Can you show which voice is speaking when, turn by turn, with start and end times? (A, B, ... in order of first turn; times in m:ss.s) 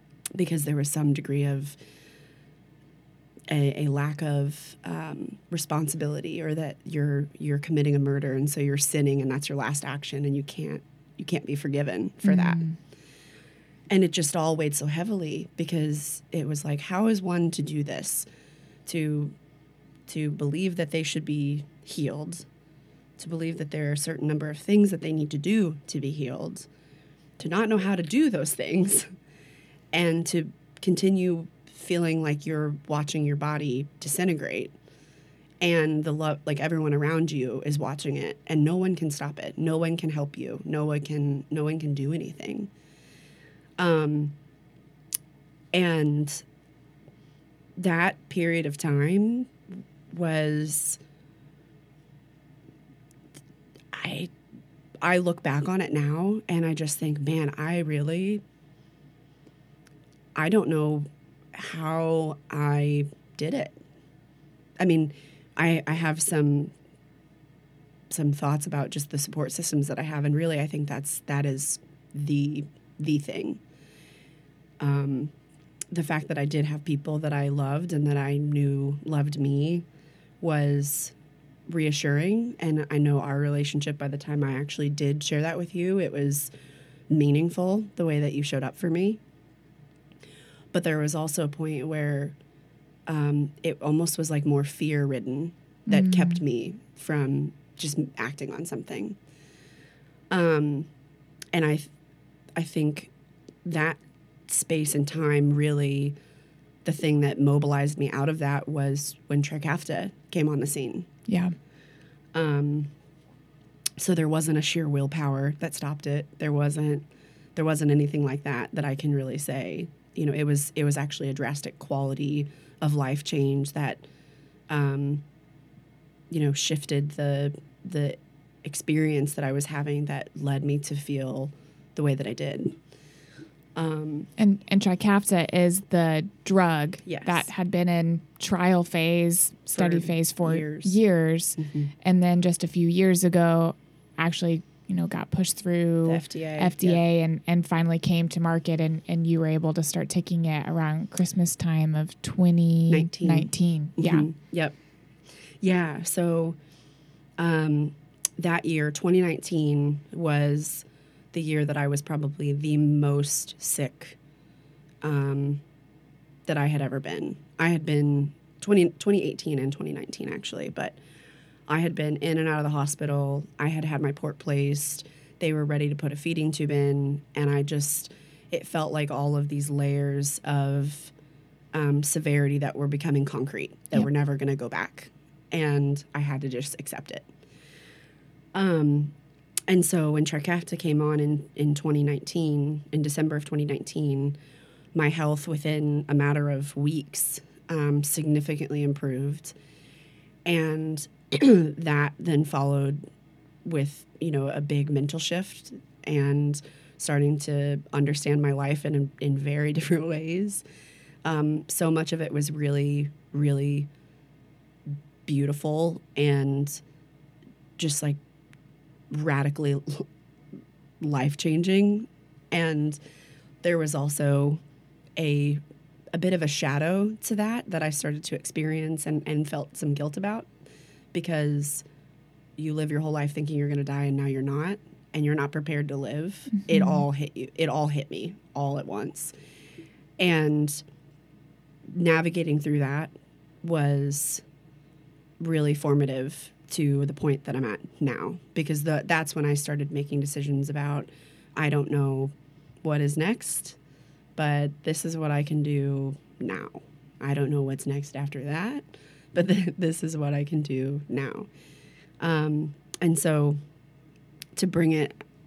0:00.4-0:01.8 A
0:03.5-0:12.6 A
0:12.2-0:12.8 B
0:13.9-0:18.2 A
0:18.9-0:19.4 A
0:20.1-0:22.5 A
0:23.2-0:26.7 A
0:27.4-0:29.1 A
0:29.9-0:34.7 A
0:35.6-0:42.7 A
0:43.8-0:44.4 A
0:45.7-0:46.4 A
0:47.8-0:49.5 A
0:50.1-0:51.0 A
0:53.9-0:54.3 A
0:55.0-0:58.4 A
1:00.4-1:03.8 A
1:04.8-1:06.7 A
1:08.1-1:13.6 A
1:14.8-1:15.3 A
1:15.9-1:19.8 A
1:20.4-1:21.2 A
1:21.7-1:26.5 A
1:27.1-1:29.2 A
1:30.7-1:32.4 A
1:33.1-1:39.2 A
1:35.9-1:36.4 B
1:40.3-1:40.9 A
1:41.5-1:41.9 A
1:42.6-1:43.1 A
1:43.6-1:46.2 A
1:46.8-1:51.1 A
1:51.3-1:51.5 B
1:52.3-1:52.9 A
1:54.0-2:04.0 A
2:04.7-2:05.2 A
2:06.3-2:12.8 A
2:13.8-2:14.3 A
2:14.4-2:34.3 B
2:17.0-2:17.5 A
2:19.7-2:21.0 A
2:21.6-2:21.9 A
2:26.0-2:27.0 A
2:32.9-2:34.8 A
2:35.6-2:36.6 A
2:37.4-2:44.2 A
2:45.0-2:45.6 A
2:46.5-2:51.0 A
2:51.7-3:01.1 A
3:01.7-3:07.3 A
3:08.6-3:09.1 A
3:09.7-3:14.4 A
3:14.9-3:19.5 A
3:20.4-3:23.0 A
3:23.6-3:30.6 A
3:31.2-3:33.9 A
3:35.3-3:36.8 A
3:37.8-3:38.2 A
3:39.1-3:40.1 A
3:41.0-3:43.0 A
3:43.6-3:44.6 A
3:45.2-3:45.6 A
3:46.1-3:50.5 A
3:51.1-3:51.8 A
3:52.6-3:59.3 A
3:56.7-3:57.0 B
4:00.2-4:00.8 A
4:01.9-4:04.4 A
4:05.4-4:12.3 A
4:12.8-4:13.8 A
4:14.4-4:21.5 A
4:22.2-4:23.6 A
4:24.6-4:25.2 A